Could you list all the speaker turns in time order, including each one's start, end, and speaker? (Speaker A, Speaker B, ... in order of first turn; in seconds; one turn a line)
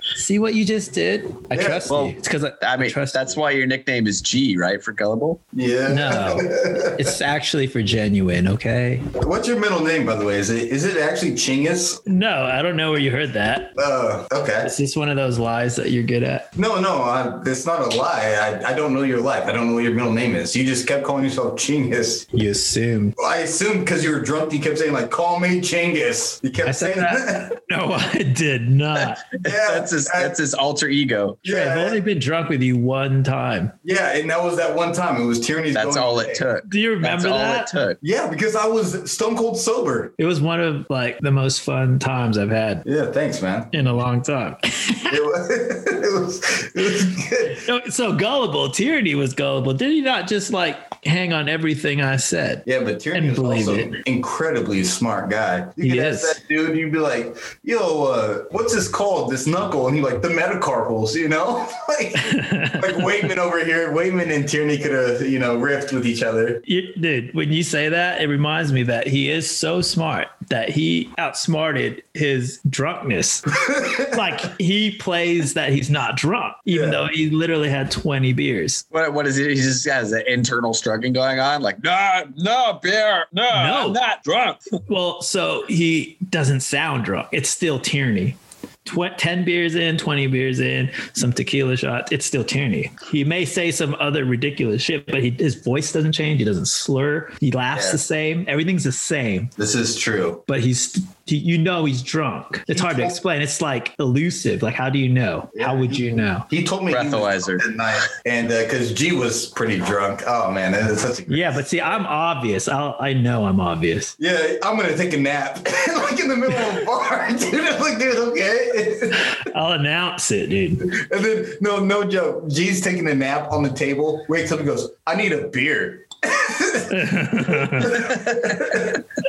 Speaker A: 0.1-3.3
Speaker B: 1.5-1.9
Speaker C: 1.9-5.4
Speaker B: 5.5-7.1
Speaker A: 5.9-9.1
Speaker B: 9.2-12.0
Speaker A: 12.1-13.8
Speaker B: 13.8-14.7
Speaker A: 14.6-16.5
Speaker B: 16.6-22.3
Speaker A: 22.3-23.1
Speaker B: 23.2-27.5
Speaker A: 26.6-29.2
Speaker C: 28.9-31.4
Speaker B: 29.4-30.4
Speaker B: 31.4-32.0
Speaker A: 31.4-33.7
Speaker B: 33.8-36.5
Speaker C: 35.7-38.0
Speaker A: 36.6-37.7
Speaker B: 38.0-40.1
Speaker A: 40.2-42.9
Speaker B: 42.9-43.7
Speaker A: 43.7-45.2
Speaker B: 45.1-47.6
Speaker A: 47.5-53.9
Speaker B: 52.6-66.6
Speaker A: 55.8-56.4
Speaker A: 62.2-63.1
Speaker A: 66.7-78.8
Speaker B: 73.6-74.2
Speaker B: 76.7-77.0
Speaker C: 78.9-84.8
Speaker A: 83.5-84.0
Speaker A: 84.9-99.5
Speaker B: 99.6-100.4
Speaker A: 100.5-106.5
Speaker B: 102.7-103.2
Speaker B: 105.5-112.0
Speaker C: 106.9-107.6
Speaker A: 111.3-114.1
Speaker B: 114.2-119.3
Speaker A: 119.3-120.9
Speaker B: 120.8-129.0
Speaker A: 126.9-128.2